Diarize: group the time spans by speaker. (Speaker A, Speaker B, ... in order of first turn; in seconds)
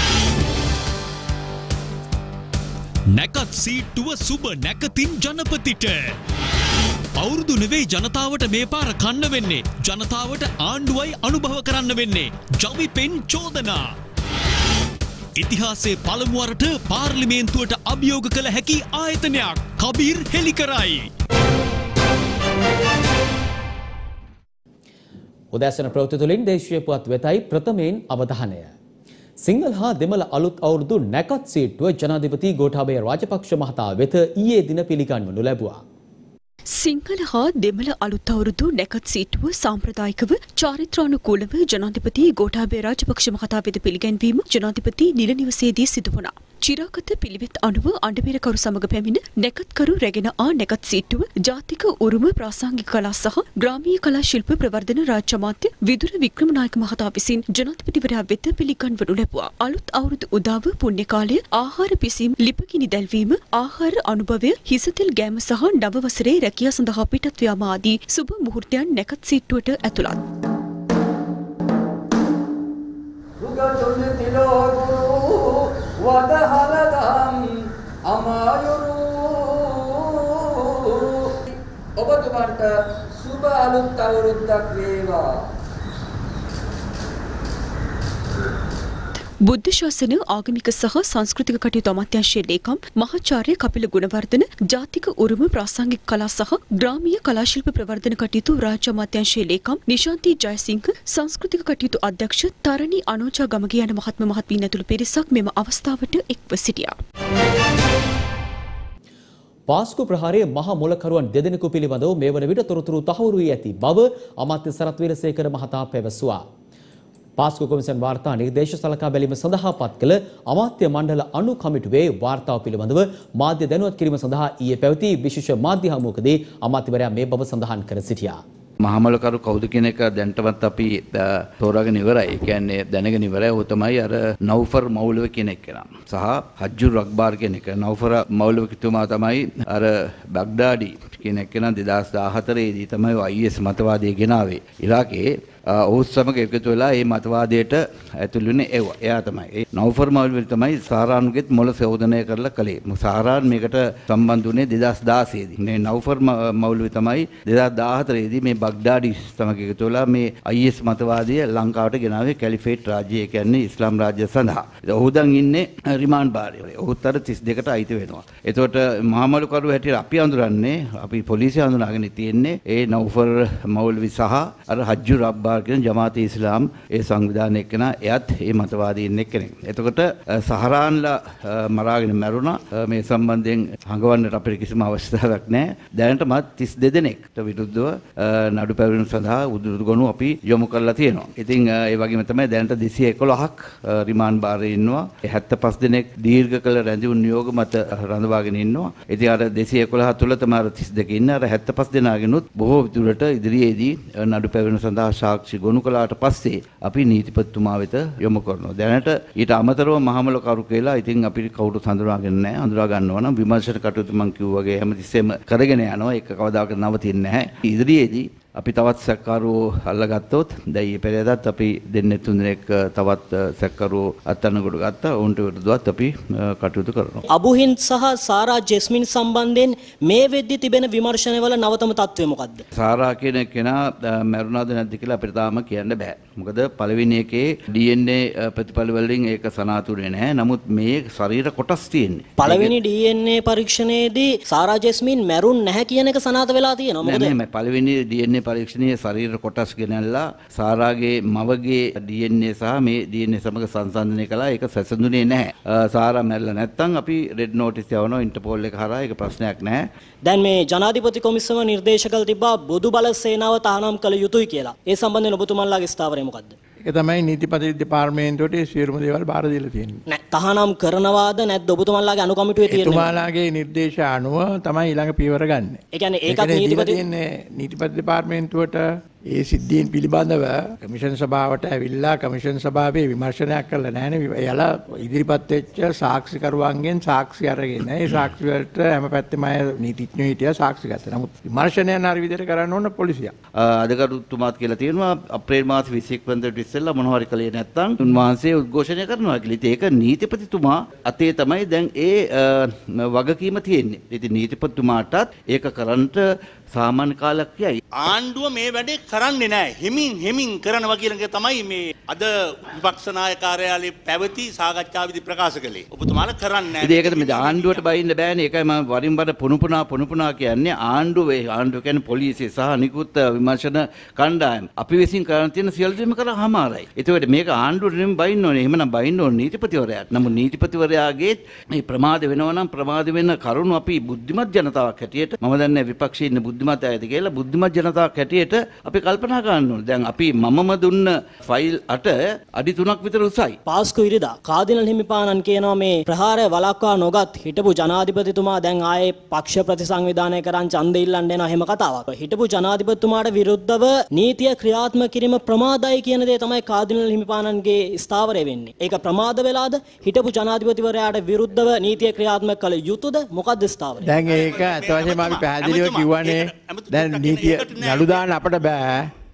Speaker A: 3.1-6.1, 7.2-13.9, 15.4-21.1
Speaker B: 25.5-28.7, 29.4-35.8, 109.7-116.4, 117.4-128.4
Speaker C: 36.7-70.2, 89.4-107.0
Speaker D: 73.4-77.5, 78.1-81.3, 82.0-85.3
Speaker E: 128.8-227.2, 232.7-242.8, 247.0-259.9, 293.6-307.7, 316.8-343.6
Speaker F: 227.3-232.6, 242.4-247.3, 260.2-266.5, 270.1-273.1, 275.9-277.0, 343.7-364.1
Speaker G: 266.8-270.0, 272.7-293.3, 364.0-369.1
Speaker H: 308.0-317.8, 364.2-368.3